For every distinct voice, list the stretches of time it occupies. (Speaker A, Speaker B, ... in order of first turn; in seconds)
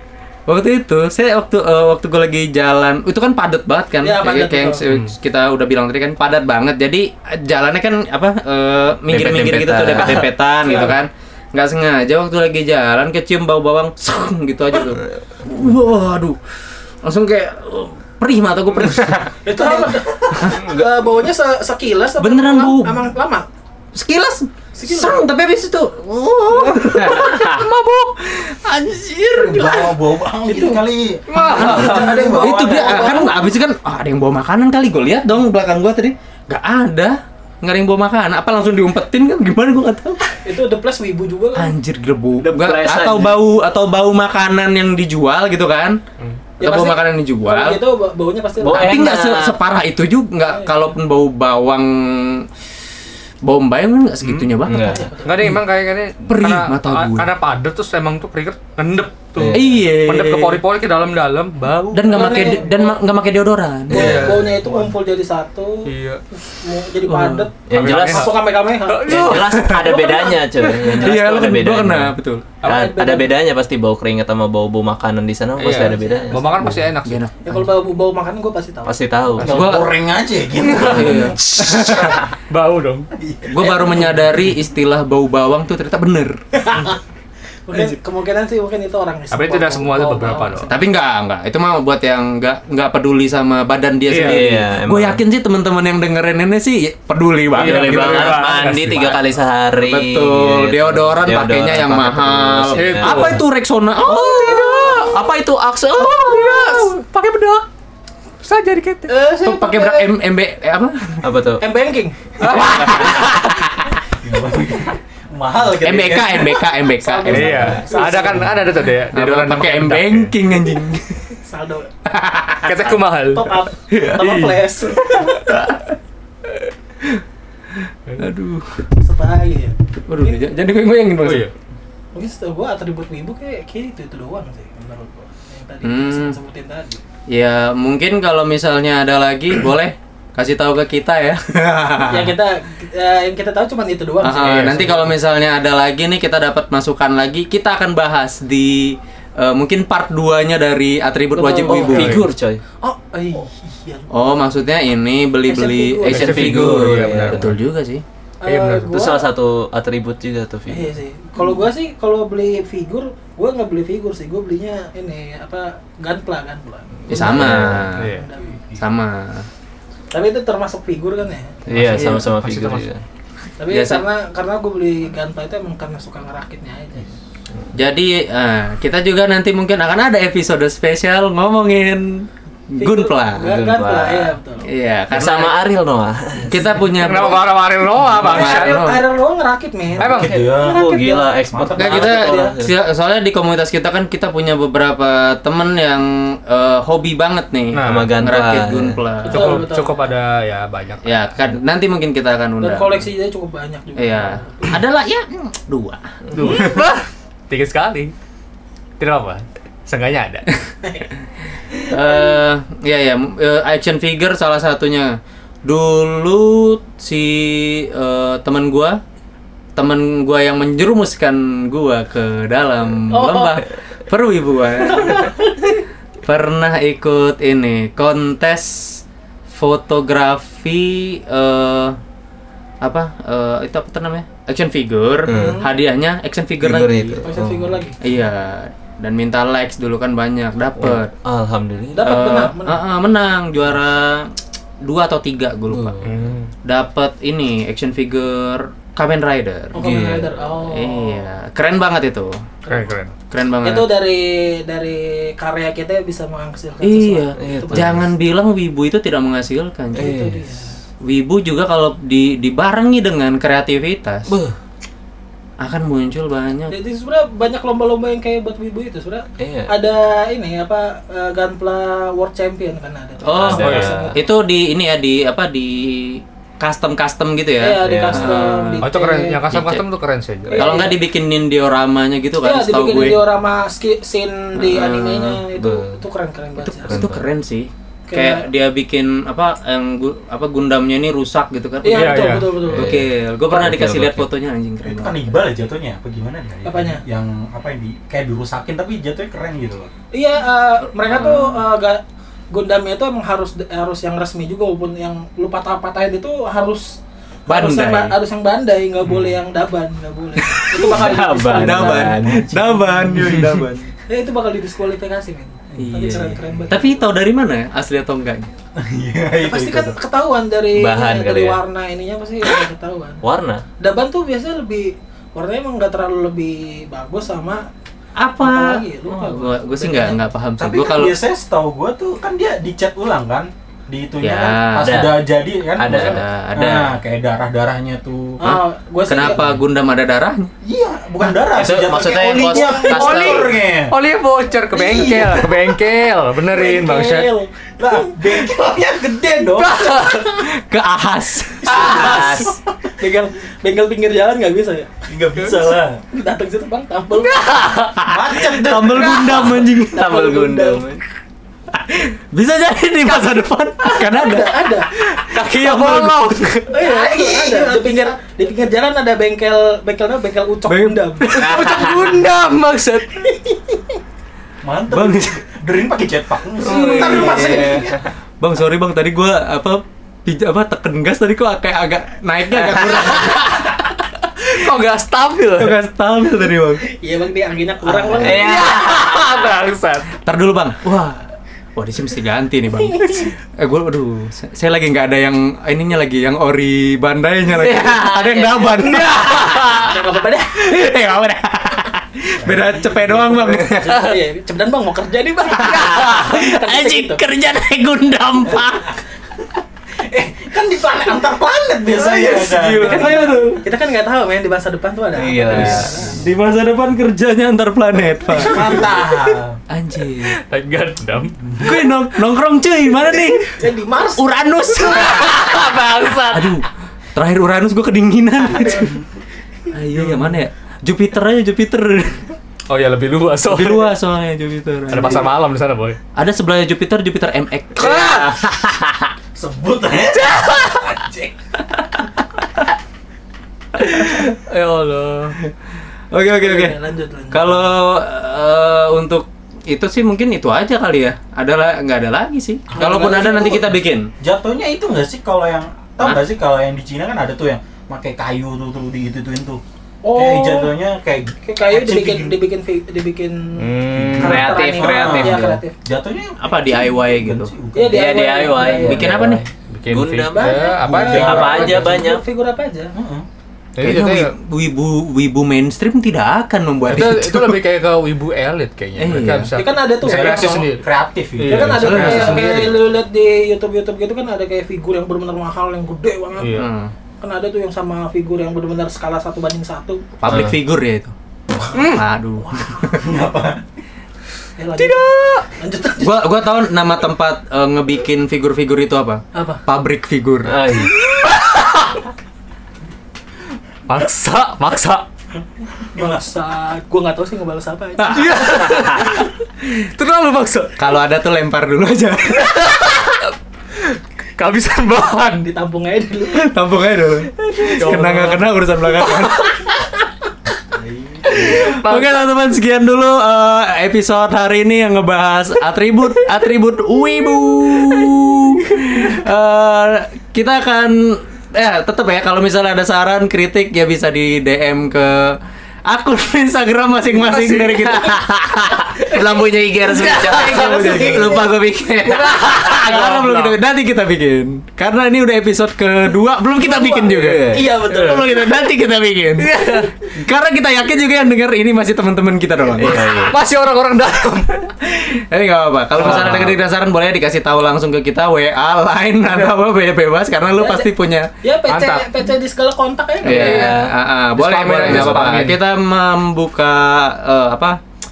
Speaker A: 0.5-16.4, 17.0-20.8, 22.2-23.0, 23.9-29.9, 31.4-40.2, 41.5-46.0, 46.6-47.8, 48.7-52.5, 53.4-55.6, 56.3-57.3, 59.5-60.6, 61.9-64.4, 70.9-72.5, 76.6-77.7, 79.4-79.9, 80.8-82.2, 83.5-86.4, 90.7-99.2, 99.8-106.6, 109.4-111.2, 112.4-114.0, 115.8-117.9, 119.1-121.4, 122.1-122.9, 125.1-125.9, 128.2-128.8, 130.1-131.5, 135.8-136.4, 137.3-142.3, 144.2-152.3, 154.1-158.0, 167.1-168.1, 168.8-169.5, 171.9-172.2, 173.7-174.0, 177.8-183.7, 184.7-185.5, 186.4-187.5, 188.1-189.0, 191.8-199.6, 201.0-203.0, 204.0-206.8, 211.9-215.1, 215.7-219.0, 219.8-225.3, 226.2-232.0, 232.8-237.2, 238.0-241.1, 242.1-244.3, 244.8-246.0, 246.7-249.9, 250.7-252.3, 253.3-253.9, 256.8-260.2, 261.0-264.3, 265.6-266.7, 273.2-278.9, 279.5-279.8, 280.5-283.2, 284.6-285.4, 286.6-295.2, 301.0-301.6, 307.5-308.1, 310.4-313.9, 315.8-318.5, 328.2-331.2, 334.2-335.0, 335.9-336.9, 338.4-340.5, 342.1-343.5, 349.8-352.4, 358.0-360.2, 361.7-366.8, 370.7-372.5, 374.9-375.4, 376.8-377.8, 378.4-383.7, 385.6-386.8, 387.9-388.4, 390.2-391.2, 391.8-404.1, 405.4-409.0, 412.4-413.6, 415.6-418.8, 419.7-420.4, 421.6-425.6, 426.3-429.0, 429.7-432.3, 433.5-435.3, 436.2-438.5, 441.7-442.0, 443.8-444.4, 446.1-446.8, 447.3-454.1, 466.4-467.5, 468.6-469.4, 473.8-477.6, 479.0-479.5, 481.8-482.6, 486.5-486.9, 490.2-491.1, 491.7-492.8, 496.0-500.6, 508.0-509.1, 510.8-512.6, 516.3-519.5, 521.3-535.4, 535.9-553.3, 554.9-561.3, 563.2-567.8
Speaker B: 4.0-4.8, 10.7-10.9, 19.4-23.5, 24.8-25.3, 30.4-30.8, 31.3-33.6, 40.4-41.7, 46.6-49.2, 54.7-55.6, 62.1-63.0, 63.9-70.9, 72.6-73.3, 75.7-76.7, 77.4-79.0, 83.6-84.1, 86.6-87.0, 87.7-91.0, 104.7-105.0, 106.1-106.9, 109.1-110.2, 111.6-113.1, 117.0-118.7, 121.4-121.9, 123.3-125.1, 129.0-130.4, 132.1-137.0, 142.0-145.0, 151.3-152.1, 152.8-154.1, 155.5-156.3, 158.4-159.3, 160.7-168.5, 170.1-171.6, 173.6-177.1, 182.8-184.7, 187.1-187.4, 188.2-192.6, 199.2-200.1, 202.6-204.8, 206.5-206.8, 223.1-223.6, 224.9-225.6, 235.3-235.7, 237.2-238.0, 241.9-242.8, 249.7-251.3, 252.7-253.0, 253.6-258.0, 260.0-260.8, 266.7-274.2, 277.6-279.4, 280.5-281.0, 282.4-287.1, 288.1-288.5, 291.8-292.9, 296.6-297.0, 300.1-312.2, 314.1-317.0, 319.4-323.2, 323.8-327.6, 328.4-330.2, 338.4-339.6, 346.5-348.5, 351.6-354.9, 356.1-357.6, 359.4-360.9, 363.8-364.9, 366.7-371.3, 373.3-373.8, 376.6-378.0, 386.9-388.6, 392.9-393.3, 399.6-400.7, 403.8-407.2, 410.4-416.2, 418.5-419.1, 423.5-425.1, 446.3-447.7, 452.8-453.6, 460.0-460.8, 461.4-463.6, 464.2-465.8, 467.7-469.2, 470.3-472.9, 479.6-480.6, 481.5-486.6, 487.2-490.0, 492.4-493.2, 494.6-496.2, 499.4-499.6, 505.8-508.4, 515.4-516.5, 517.9-518.2, 540.0-541.5, 546.6-548.3, 560.6-560.9, 561.4-563.7
Speaker C: 9.1-10.3, 42.4-43.4, 48.6-49.6, 54.6-55.0, 67.7-68.4, 69.1-72.1, 72.7-76.5, 78.8-79.8, 94.2-95.2, 97.6-103.3, 104.1-105.3, 111.2-111.6, 151.4-152.6, 156.1-157.5, 158.9-160.9, 167.1-167.9, 171.7-173.0, 183.6-184.4, 185.1-186.8, 190.6-192.7, 197.8-199.0, 206.3-206.6, 235.3-235.6, 236.6-237.8, 240.8-242.5, 245.7-246.2, 249.8-250.5, 257.4-258.1, 260.0-260.4, 264.3-264.6, 269.4-269.7, 273.4-274.1, 277.8-278.4, 285.6-286.0, 286.9-287.2, 292.7-294.3, 310.8-312.4, 320.8-321.6, 323.2-323.6, 334.8-336.8, 341.5-343.4, 351.7-352.6, 359.1-361.0, 371.4-372.1, 376.6-378.0, 388.1-388.9, 397.6-399.0, 415.2-416.0, 464.2-465.6, 467.9-470.6, 471.2-472.2, 490.3-490.6, 500.5-500.9, 540.1-541.3, 547.1-548.2, 552.8-553.3, 563.3-563.9, 564.9-565.2
Speaker D: 27.1-27.7, 31.3-32.2, 54.2-54.5, 55.2-62.6, 63.9-64.6, 65.9-66.2, 67.1-68.3, 68.9-70.0, 70.8-71.1, 75.6-77.2, 80.6-83.1, 89.3-90.7, 94.1-94.6, 97.5-99.2, 102.8-103.4, 104.1-105.2, 106.0-107.6, 108.4-109.1, 112.4-113.3, 117.3-120.3, 122.6-124.6, 131.2-131.5, 144.4-145.1, 151.9-152.2, 156.1-157.6, 158.5-158.9, 168.0-168.2, 171.7-172.9, 186.9-188.8, 190.0-190.4, 197.7-198.1, 199.3-201.1, 206.3-208.1, 209.0-210.8, 246.0-246.5, 252.7-253.1, 273.5-274.0, 278.8-280.8, 291.9-292.5, 335.8-336.1, 342.9-347.3, 349.6-350.3, 357.2-357.9, 365.3-366.7, 371.3-373.1, 383.1-383.7, 384.5-385.7, 388.2-390.1, 399.2-399.6, 412.6-413.4, 420.2-421.7, 424.9-426.6, 432.7-433.9, 434.9-436.0, 437.8-438.7, 440.1-441.0, 444.5-445.4, 463.6-464.4, 469.7-471.8, 473.8-474.3, 476.9-480.9, 481.4-482.7, 486.4-486.7, 491.7-492.0, 494.7-495.4, 501.0-502.0, 503.9-505.1, 508.1-510.8, 512.4-515.5, 517.6-518.5, 519.0-519.6, 521.4-522.2, 537.2-538.1, 542.0-543.6, 549.4-549.9, 552.8-554.7, 556.0-556.6, 561.7-562.3, 563.3-563.8, 564.4-565.6
Speaker E: 29.3-33.2, 79.4-82.1, 83.2-83.5, 114.2-116.6, 168.0-168.8, 190.0-190.9, 191.5-192.0, 294.8-299.9, 312.0-313.6, 318.8-320.0, 330.6-338.4, 340.6-343.9, 344.7-345.6, 347.8-349.8, 355.1-356.0, 358.0-359.5, 367.0-368.0, 374.6-377.8, 402.5-403.4, 410.1-413.0, 418.4-419.6, 421.4-421.8, 430.0-430.3, 439.4-441.3, 452.8-453.7, 454.2-459.6, 460.1-462.4, 463.9-468.4, 470.8-472.0, 472.9-473.2, 480.0-482.7, 492.9-493.6, 506.0-506.2, 520.7-521.5